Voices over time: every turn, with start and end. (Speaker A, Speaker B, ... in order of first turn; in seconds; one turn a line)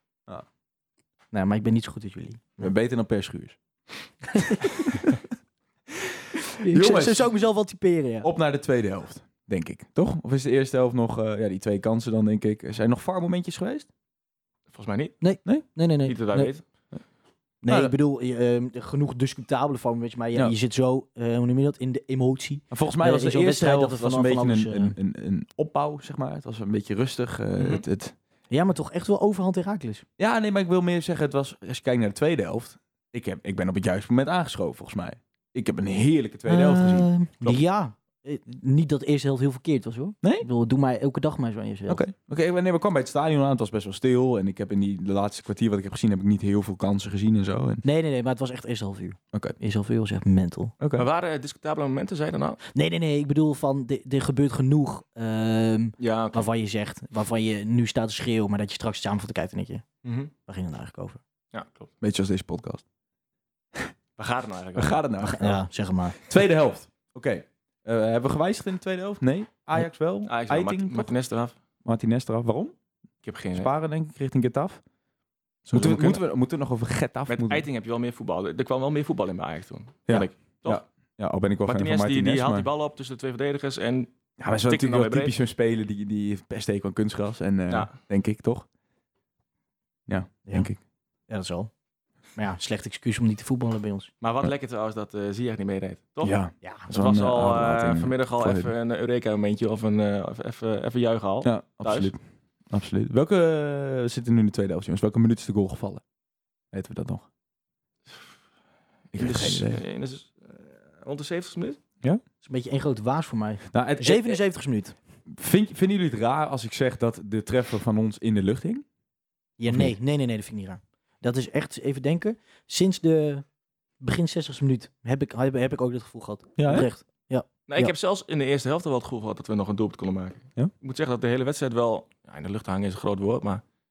Speaker A: 1.3-2.7
Speaker B: 2.6-3.6
Speaker A: 4.3-4.8
Speaker B: 4.8-5.2
Speaker A: 6.6-8.3
Speaker B: 6.7-7.3
Speaker B: 8.2-13.9
Speaker C: 14.7-15.2
Speaker A: 15.2-16.5
Speaker C: 16.1-16.6
Speaker A: 17.6-25.0
Speaker B: 17.7-17.9
Speaker B: 22.7-28.1
Speaker C: 27.6-27.8
Speaker A: 28.5-30.1
Speaker B: 30.2-37.1
Speaker A: 36.5-42.0
Speaker B: 41.9-47.8
Speaker A: 47.8-50.7
Speaker B: 50.8-51.1
Speaker C: 51.0-52.6
Speaker A: 52.7-59.9
Speaker C: 56.0-56.5
Speaker C: 60.0-60.3
Speaker A: 60.5-61.2
Speaker C: 61.5-61.9
Speaker B: 62.0-62.8
Speaker C: 64.2-65.0
Speaker B: 64.8-65.6
Speaker A: 65.2-66.2
Speaker B: 66.2-71.1
Speaker C: 70.2-71.5
Speaker B: 71.8-72.7
Speaker C: 73.2-73.7
Speaker B: 73.5-74.8
Speaker B: 75.7-77.7
Speaker C: 75.7-76.2
Speaker C: 77.3-80.8
Speaker B: 80.1-82.7
Speaker C: 81.7-84.1
Speaker B: 84.4-88.7
Speaker C: 84.7-85.3
Speaker C: 87.7-88.0
Speaker B: 90.1-90.8
Speaker A: 91.3-91.7
Speaker A: 92.4-94.1
Speaker C: 94.2-96.4
Speaker B: 96.2-98.7
Speaker A: 96.6-96.9
Speaker C: 96.9-102.1
Speaker B: 101.4-102.2
Speaker B: 102.7-106.0
Speaker B: 106.7-107.3
Speaker C: 109.1-111.8
Speaker B: 109.1-109.8
Speaker A: 112.4-115.0
Speaker B: 113.7-114.4
Speaker B: 115.3-118.8
Speaker A: 119.6-123.5
Speaker A: 124.0-127.9
Speaker B: 126.6-126.9
Speaker C: 127.7-133.6